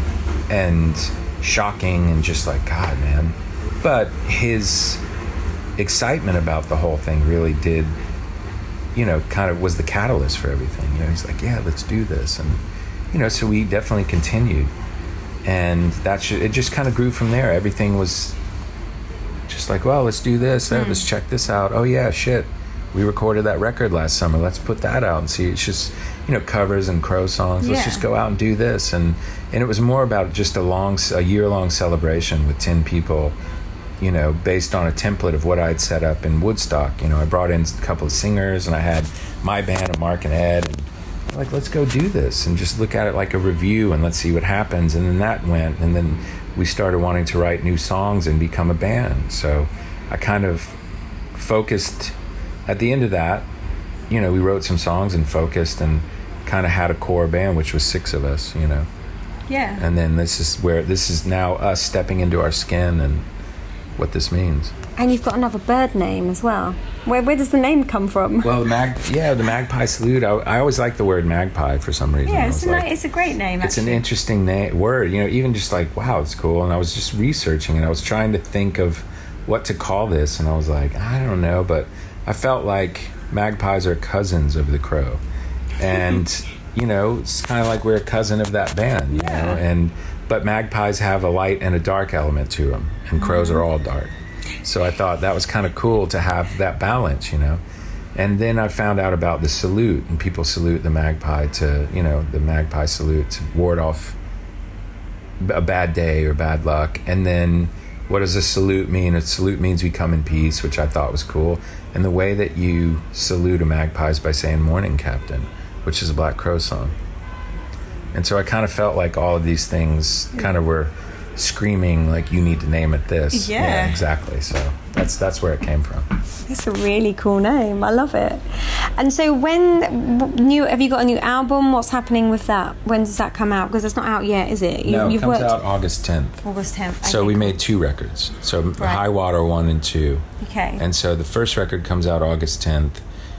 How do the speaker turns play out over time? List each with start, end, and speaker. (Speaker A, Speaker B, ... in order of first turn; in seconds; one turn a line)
Speaker A: 0.5-5.0
Speaker A: 5.8-8.0
Speaker A: 8.9-14.7
Speaker A: 15.4-18.4
Speaker A: 19.5-33.4
Speaker B: 20.7-21.1
Speaker B: 27.6-28.1
Speaker A: 34.0-50.8
Speaker A: 51.3-53.5
Speaker A: 54.1-58.9
Speaker B: 59.5-59.9
Speaker A: 59.8-63.3
Speaker A: 64.0-64.8
Speaker B: 65.0-68.6
Speaker A: 68.4-72.9
Speaker B: 72.2-74.0
Speaker A: 73.6-85.2
Speaker A: 85.8-97.6
Speaker B: 89.1-89.6
Speaker B: 93.2-93.6
Speaker A: 98.2-104.2
Speaker A: 105.4-117.0
Speaker A: 118.1-126.1
Speaker B: 123.3-124.0
Speaker B: 126.5-135.6
Speaker A: 134.8-136.4
Speaker B: 136.4-137.6
Speaker A: 137.0-143.0
Speaker B: 138.8-139.1
Speaker B: 140.4-140.8